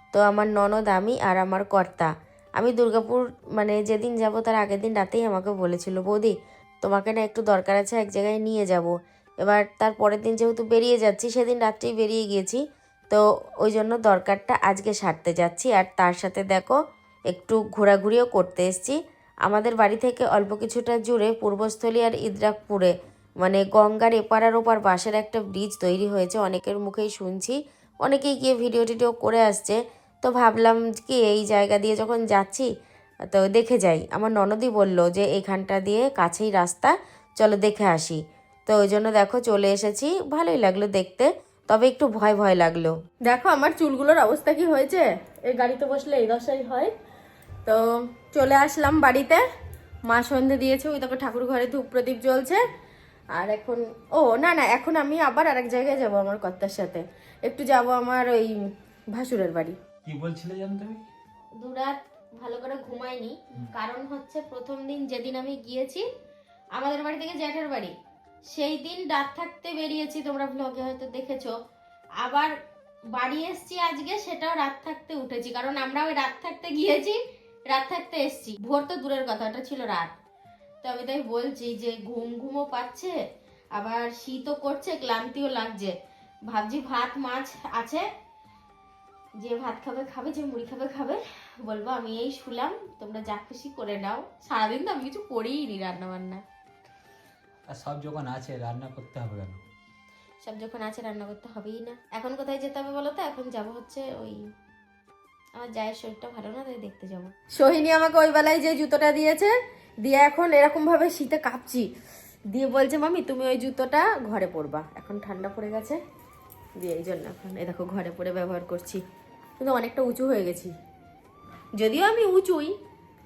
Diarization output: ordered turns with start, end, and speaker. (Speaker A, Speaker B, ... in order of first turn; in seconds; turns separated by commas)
Speaker A: 0.1-16.8, Speaker A: 17.3-32.7, Speaker A: 33.3-42.9, Speaker B: 43.2-46.9, Speaker B: 47.6-49.4, Speaker B: 50.0-52.6, Speaker B: 53.3-58.5, Speaker B: 59.1-59.8, Speaker C: 60.0-61.0, Speaker A: 61.6-61.9, Speaker B: 62.4-66.0, Speaker B: 66.8-67.9, Speaker B: 68.5-71.5, Speaker B: 72.2-72.5, Speaker B: 73.1-77.2, Speaker B: 77.7-80.1, Speaker B: 80.8-83.1, Speaker B: 83.7-85.9, Speaker B: 86.5-88.0, Speaker B: 89.4-96.4, Speaker C: 97.7-99.6, Speaker A: 100.6-102.0, Speaker B: 101.2-104.3, Speaker A: 105.5-107.3, Speaker B: 107.6-111.9, Speaker B: 112.5-116.0, Speaker B: 116.8-119.0, Speaker B: 119.6-120.7, Speaker B: 121.8-122.7